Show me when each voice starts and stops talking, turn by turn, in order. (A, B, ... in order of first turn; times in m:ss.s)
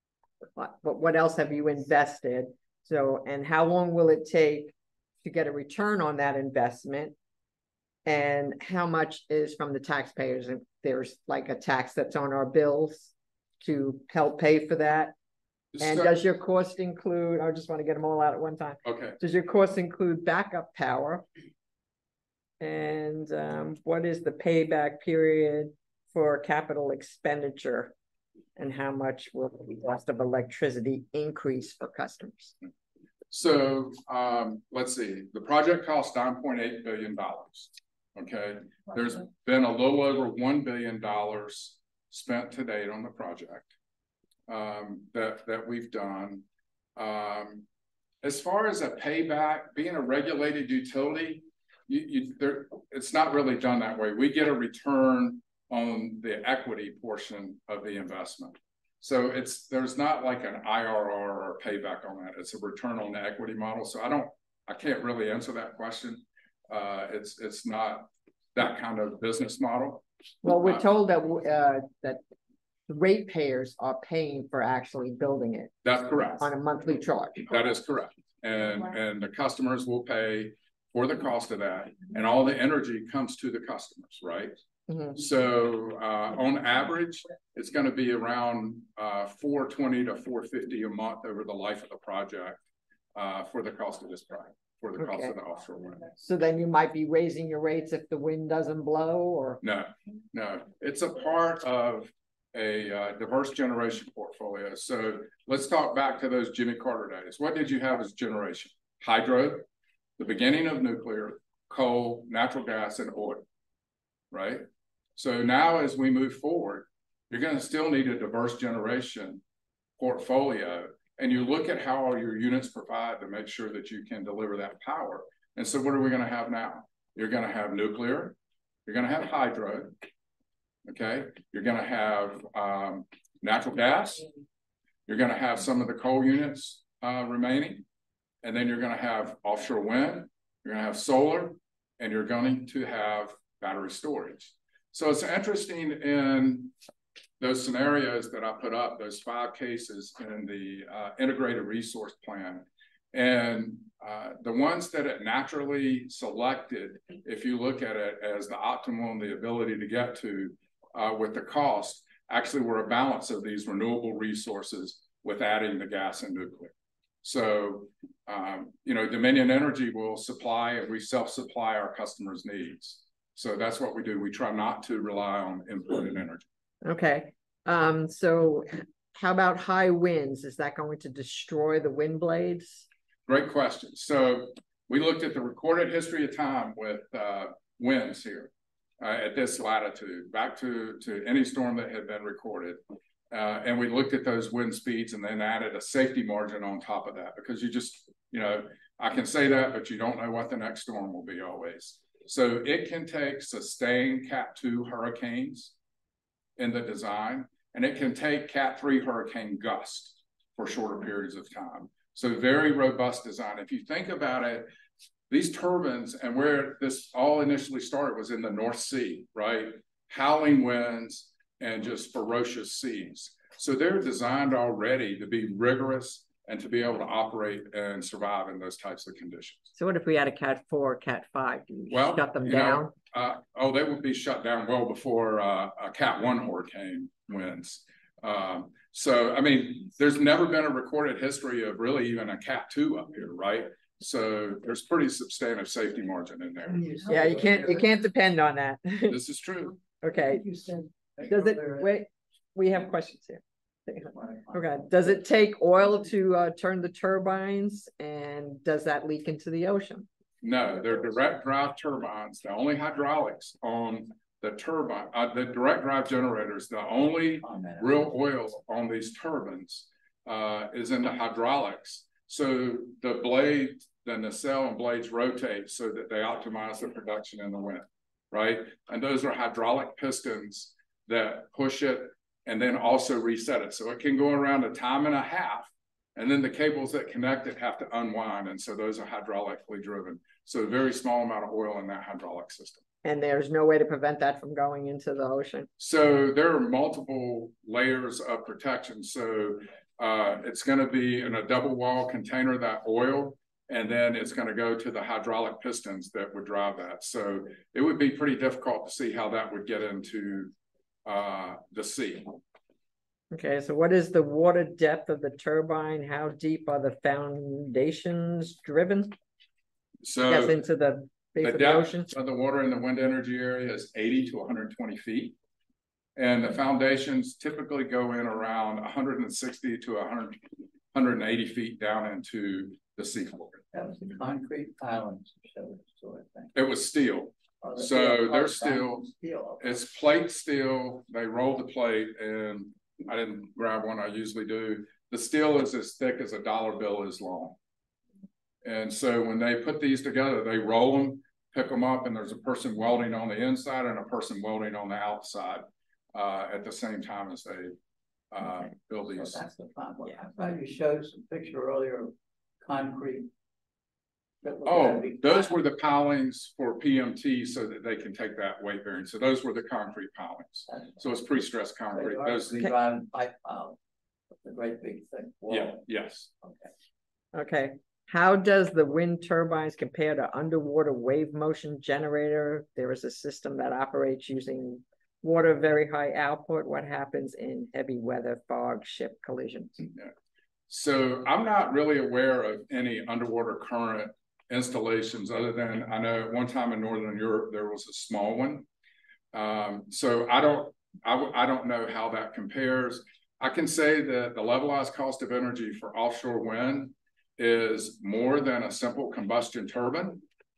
0:00.6-0:07.1 A
0:08.0-0:15.1 A
0:15.7-0:16.2 B
0:15.8-0:21.2 A
0:18.8-0:19.2 B
0:22.6-0:27.9 A
0:28.6-0:32.5 A
0:33.3-0:43.7 B
0:44.5-0:46.4 B
0:47.0-0:47.6 B
0:48.2-1:10.8 B
1:10.4-1:12.2 A
1:12.9-1:15.7 A
1:15.8-1:16.5 B
1:16.4-1:17.4 A
1:17.5-1:24.6 B
1:24.9-1:25.2 A
1:25.1-1:32.6 B
1:33.1-1:36.1 B
1:35.0-1:35.3 A
1:36.2-1:39.6 A
1:39.6-1:49.7 B
1:50.2-1:53.4 B
1:54.3-1:59.4 B
2:00.0-2:09.9 B
2:10.8-2:14.3 B
2:15.1-2:17.8 B
2:18.4-2:26.7 B
2:27.4-2:46.7 B
2:47.2-2:56.4 B
2:56.8-3:02.8 A
3:03.3-3:25.7 B
3:26.6-3:34.7 B
3:35.3-3:49.7 B
3:49.7-3:52.9 A
3:51.9-4:06.8 B
4:06.7-4:07.9 C
4:07.1-4:09.2 A
4:09.1-4:09.8 B
4:10.0-4:10.5 A
4:10.3-4:11.9 C
4:11.3-4:20.1 A
4:14.1-4:14.5 C
4:20.4-4:52.8 B
4:53.0-4:55.7 A
4:55.8-5:10.5 B
5:11.0-5:12.4 B
5:13.3-5:19.1 A
5:20.0-5:20.6 B
5:20.2-5:22.1 A
5:21.4-5:25.4 B
5:26.2-5:33.6 B
5:33.7-5:36.5 C
5:36.5-5:39.1 B
5:37.6-5:39.6 C
5:39.6-5:47.6 B
5:48.6-5:57.7 B
5:58.3-5:59.4 B
5:59.1-6:03.3 C
6:04.4-6:05.5 C
6:04.6-6:12.8 B
6:11.9-6:13.8 C
6:14.4-6:15.8 C
6:15.5-6:16.3 B
6:16.4-6:16.7 C
6:17.3-6:29.8 A
6:30.7-6:38.6 B
6:39.3-6:50.2 B